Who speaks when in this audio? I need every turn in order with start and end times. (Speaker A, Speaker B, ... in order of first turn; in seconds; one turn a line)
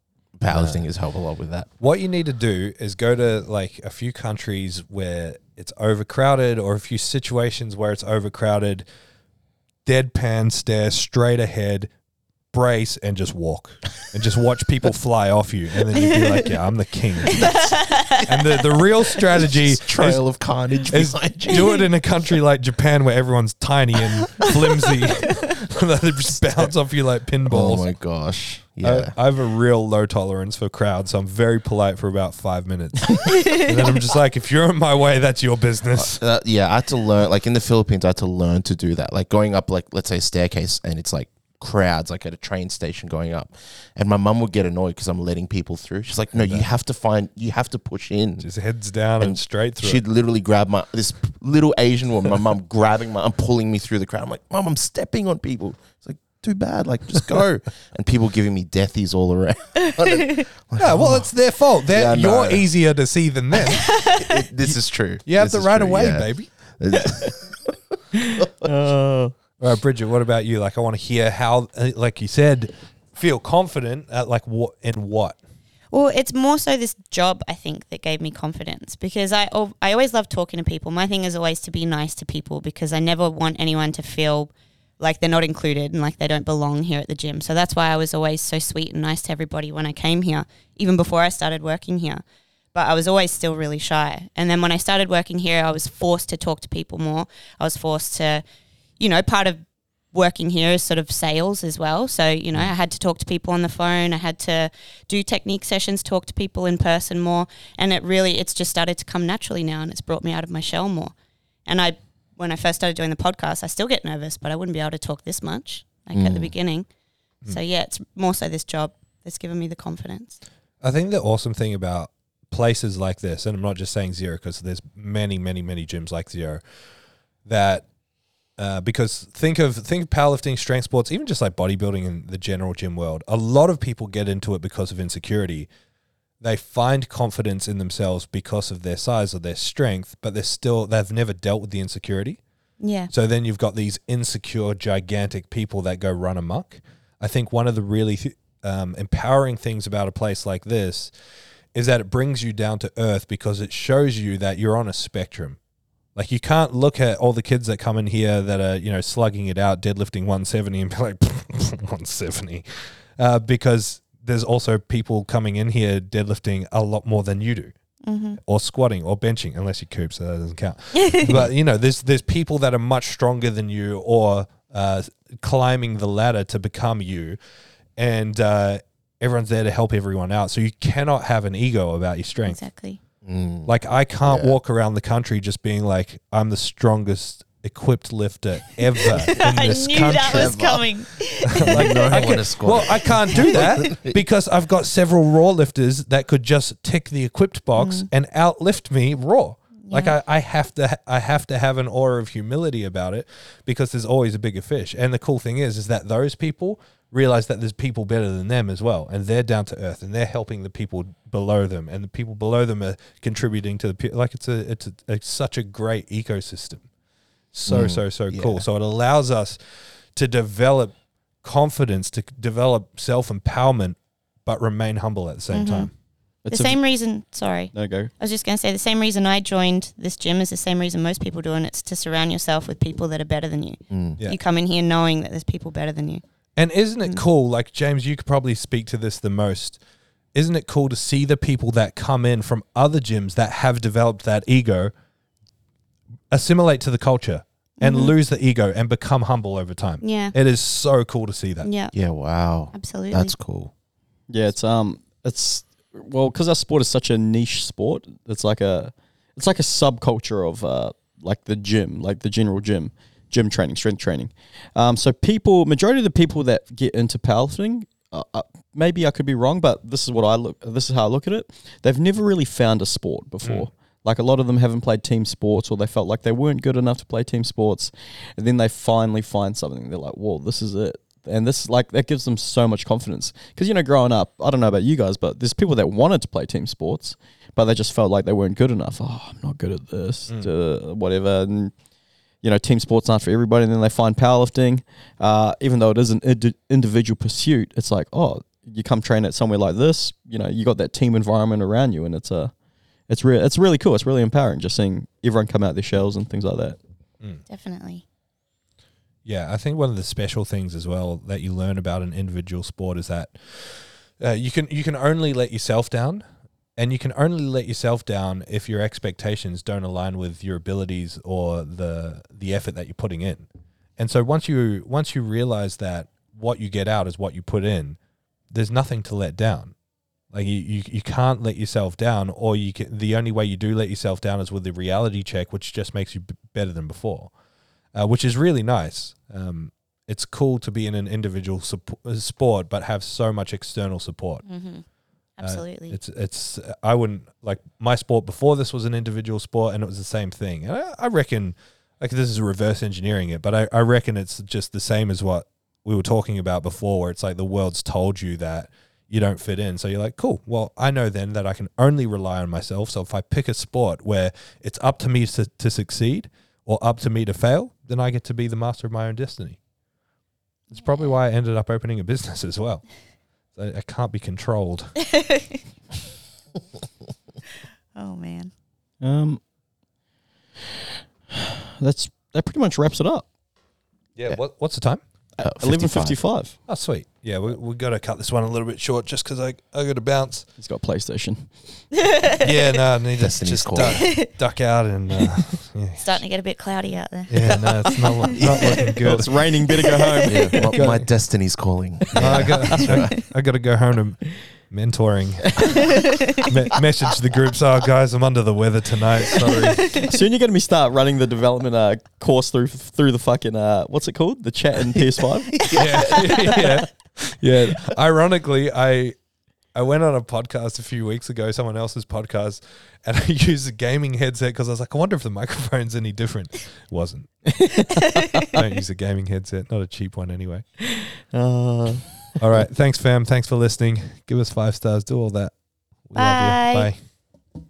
Speaker A: 0.4-1.7
Speaker B: 0.5-0.8
Speaker B: 1.8-8.8
Speaker B: 9.8-11.9
Speaker B: 12.5-20.2
Speaker C: 15.9-16.3
Speaker C: 17.3-18.2
Speaker A: 19.3-21.9
Speaker B: 20.9-27.9
Speaker C: 21.5-21.8
Speaker A: 27.5-29.1
Speaker B: 28.8-36.2
Speaker C: 33.3-33.7
Speaker A: 35.9-48.5
Speaker B: 46.3-46.6
Speaker B: 48.4-50.0
Speaker A: 49.2-61.3
Speaker C: 60.0-60.4
Speaker B: 60.8-64.2
Speaker A: 61.9-62.7
Speaker C: 63.7-64.3
Speaker A: 64.1-66.3
Speaker B: 65.2-66.5
Speaker A: 66.8-67.7
Speaker D: 68.2-69.3
Speaker A: 68.4-68.7
Speaker B: 69.6-75.4
Speaker C: 75.9-98.4
Speaker C: 99.0-111.1
Speaker C: 111.7-116.9
Speaker A: 116.1-116.5
Speaker C: 117.5-120.4
Speaker B: 120.8-126.6
Speaker B: 127.5-127.8
Speaker B: 128.6-135.7
Speaker B: 136.4-142.4
Speaker C: 142.8-143.1
Speaker B: 143.1-151.1
Speaker B: 151.7-155.6
Speaker B: 156.1-162.7
Speaker B: 163.2-167.7
Speaker C: 168.0-168.4
Speaker B: 168.4-177.4
Speaker C: 171.0-171.4
Speaker B: 178.0-182.6
Speaker C: 182.4-183.0
Speaker A: 183.2-183.7
Speaker B: 183.7-190.6
Speaker A: 184.2-184.6
Speaker C: 189.0-192.4
Speaker A: 190.2-190.9
Speaker B: 191.4-216.8
Speaker A: 191.6-194.2
Speaker C: 193.3-193.9
Speaker C: 197.8-198.1
Speaker C: 199.9-200.1
Speaker B: 217.5-219.6
Speaker A: 217.7-218.6
Speaker B: 220.1-225.9
Speaker C: 225.5-225.9
Speaker D: 226.4-226.8
Speaker C: 226.5-236.2
Speaker D: 227.7-228.1
Speaker A: 233.9-234.2
Speaker B: 236.6-239.8
Speaker B: 240.3-244.9
Speaker B: 246.3-251.7
Speaker C: 247.8-248.1
Speaker C: 250.0-250.3
Speaker C: 251.6-251.9
Speaker A: 251.9-253.7
Speaker C: 252.7-253.3
Speaker D: 254.3-291.7
Speaker D: 292.4-302.5
Speaker D: 303.1-306.8
Speaker C: 307.5-308.0
Speaker B: 309.2-316.2
Speaker B: 316.8-323.5
Speaker B: 324.0-328.0
Speaker B: 328.5-329.7
Speaker B: 330.3-337.3
Speaker B: 337.9-344.4
Speaker C: 344.4-344.8
Speaker C: 345.4-346.0
Speaker B: 345.4-369.6
Speaker B: 370.7-372.8
Speaker B: 373.5-375.0
Speaker C: 375.1-375.6
Speaker C: 377.9-378.5
Speaker D: 379.0-379.4
Speaker D: 381.3-383.2
Speaker B: 384.1-385.0
Speaker D: 385.4-386.6
Speaker A: 385.4-386.2
Speaker B: 386.7-390.5
Speaker D: 390.6-391.5
Speaker C: 391.9-392.5
Speaker B: 392.4-396.2
Speaker A: 393.2-394.1
Speaker C: 393.8-394.3
Speaker C: 396.0-398.9
Speaker B: 397.3-399.3
Speaker D: 399.0-400.7
Speaker C: 399.7-400.7
Speaker A: 400.2-403.2
Speaker B: 400.7-401.1
Speaker D: 402.1-402.8
Speaker B: 402.1-410.0
Speaker D: 405.6-405.9
Speaker D: 409.9-415.7
Speaker A: 415.5-416.3
Speaker B: 415.7-419.1
Speaker C: 415.7-416.6
Speaker B: 419.7-427.3
Speaker D: 427.5-428.5
Speaker C: 427.9-428.6
Speaker B: 428.4-430.6
Speaker D: 431.0-432.1
Speaker B: 432.4-435.5
Speaker B: 436.1-437.0
Speaker C: 436.2-436.9